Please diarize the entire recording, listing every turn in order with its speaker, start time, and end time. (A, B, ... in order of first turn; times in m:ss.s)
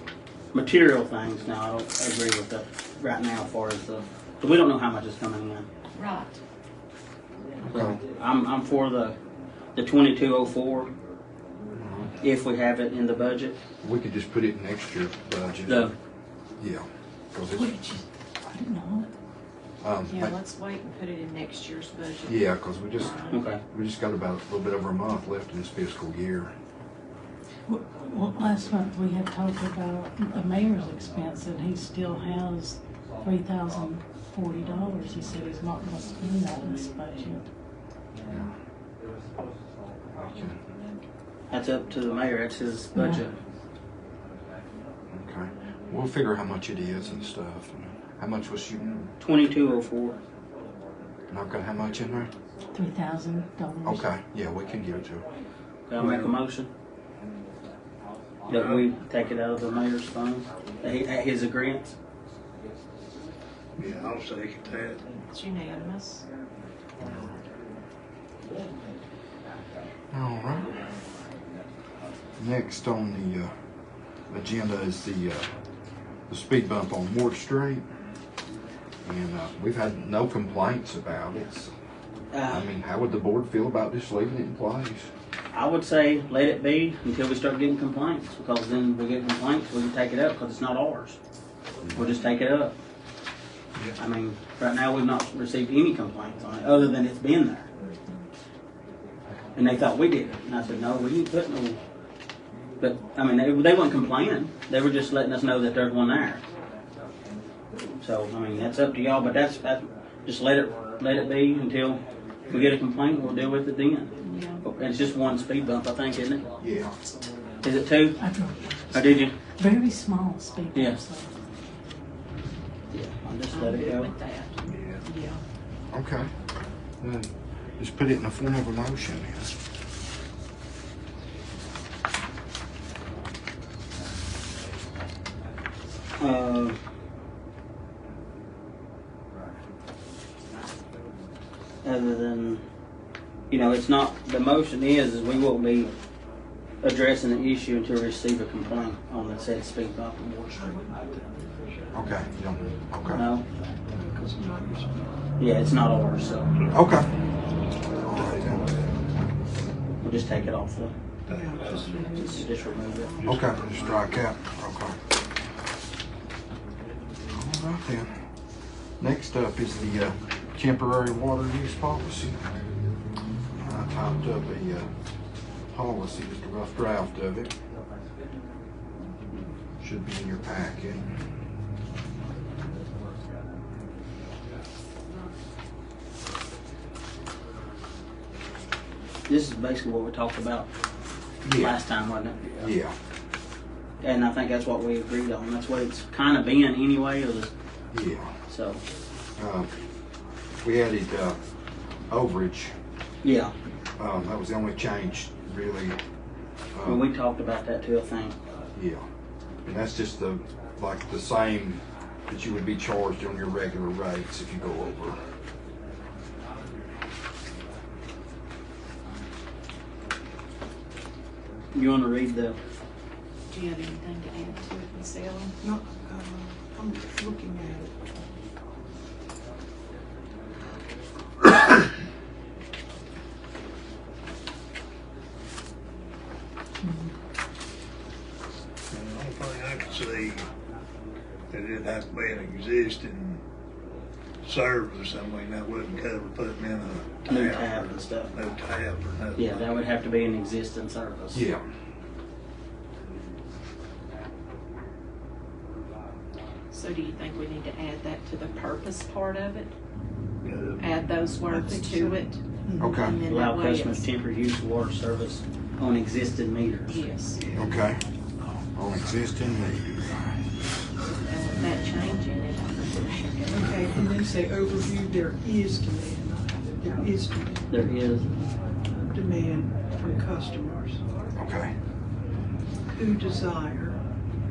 0:00.5-0:05.7 A
0:05.9-0:06.4 B
0:07.6-0:08.0 C
0:07.7-0:09.2 A
0:09.8-0:10.9 A
0:11.8-0:12.1 C
0:12.2-0:13.6 A
0:13.8-0:15.9 C
0:15.7-0:15.9 A
0:16.6-0:17.7 C
0:17.5-0:19.1 D
0:19.8-0:20.4 C
0:20.1-0:23.4 B
0:22.3-0:23.2 C
0:23.3-0:23.6 A
0:23.7-0:26.5 C
0:27.7-0:37.4 D
0:38.3-0:38.5 C
0:40.1-0:40.6 C
0:41.5-0:43.4 A
0:43.0-0:43.2 D
0:45.1-0:49.1 C
0:49.2-0:50.2 A
0:51.3-0:52.3 C
0:52.7-0:54.0 D
0:53.8-0:55.2 C
0:55.9-0:56.7 A
0:58.5-1:01.9 A
0:58.5-0:58.9 E
1:03.8-1:05.0 E
1:05.3-1:06.2 B
1:07.0-1:07.4 C
1:10.1-1:10.8 C
1:12.4-1:13.5 C
1:14.3-1:15.5 C
1:16.3-1:17.9 C
1:19.0-1:21.7 C
1:22.3-1:22.7 A
1:22.5-1:25.1 C
1:25.5-1:31.2 A
1:31.8-1:32.1 C
1:32.0-1:32.8 A
1:34.0-1:37.7 A
1:39.6-1:41.8 A
1:42.8-1:46.4 A
1:48.0-1:56.5 A
1:54.2-1:54.6 B
1:56.6-1:57.0 C
1:57.6-1:58.2 A
1:58.2-2:01.3 D
1:58.9-1:59.4 A
2:00.7-2:01.0 A
2:02.9-2:04.1 A
2:03.5-2:05.4 B
2:04.7-2:05.0 E
2:05.9-2:06.3 C
2:07.0-2:09.6 C
2:16.2-2:16.8 A
2:21.8-2:22.6 A
2:23.5-2:25.9 A
2:26.8-2:30.6 A
2:30.5-2:31.9 F
2:31.9-2:33.2 C
2:33.1-2:33.4 A
2:33.9-2:35.2 F
2:35.4-2:36.5 A
2:36.5-2:36.9 E
2:36.7-2:37.1 C
2:38.1-2:38.5 F
2:38.1-2:38.6 C
2:40.0-2:40.9 A
2:41.3-2:41.9 E
2:41.3-2:43.8 F
2:42.0-2:43.2 A
2:43.2-2:43.6 E
2:43.2-2:45.0 C
2:47.3-2:48.2 C
2:49.0-2:52.4 C
2:53.6-2:54.9 C
2:55.7-2:57.5 C
2:59.8-3:01.2 C
3:09.3-3:10.7 A
3:11.4-3:11.8 C
3:11.4-3:12.7 A
3:12.6-3:13.0 C
3:14.0-3:17.5 A
3:17.9-3:18.3 C
3:18.5-3:18.8 A
3:19.4-3:19.7 C
3:20.6-3:21.4 C
3:22.1-3:22.7 C
3:23.2-3:23.5 A
3:24.0-3:26.0 C
3:26.7-3:27.0 C
3:26.8-3:28.4 A
3:28.8-3:29.0 C
3:29.6-3:35.2 C
3:41.7-3:42.6 A
3:43.5-3:45.5 B
3:45.6-3:48.2 F
3:56.8-3:57.1 D
3:58.9-4:00.4 E
4:01.5-4:03.4 E
4:04.4-4:09.7 E
4:07.3-4:08.3 A
4:09.4-4:11.4 A
4:11.3-4:11.6 C
4:16.7-4:19.7 B
4:20.4-4:20.9 E
4:20.8-4:24.1 B
4:21.5-4:23.0 F
4:22.8-4:23.2 C
4:23.3-4:27.0 A
4:26.9-4:27.4 B
4:27.4-4:27.7 E
4:27.6-4:28.0 C
4:28.7-4:30.4 C
4:31.1-4:33.7 B
4:33.5-4:37.9 F
4:37.7-4:38.3 A
4:39.1-4:41.0 F
4:41.4-4:41.7 C
4:42.9-4:44.0 F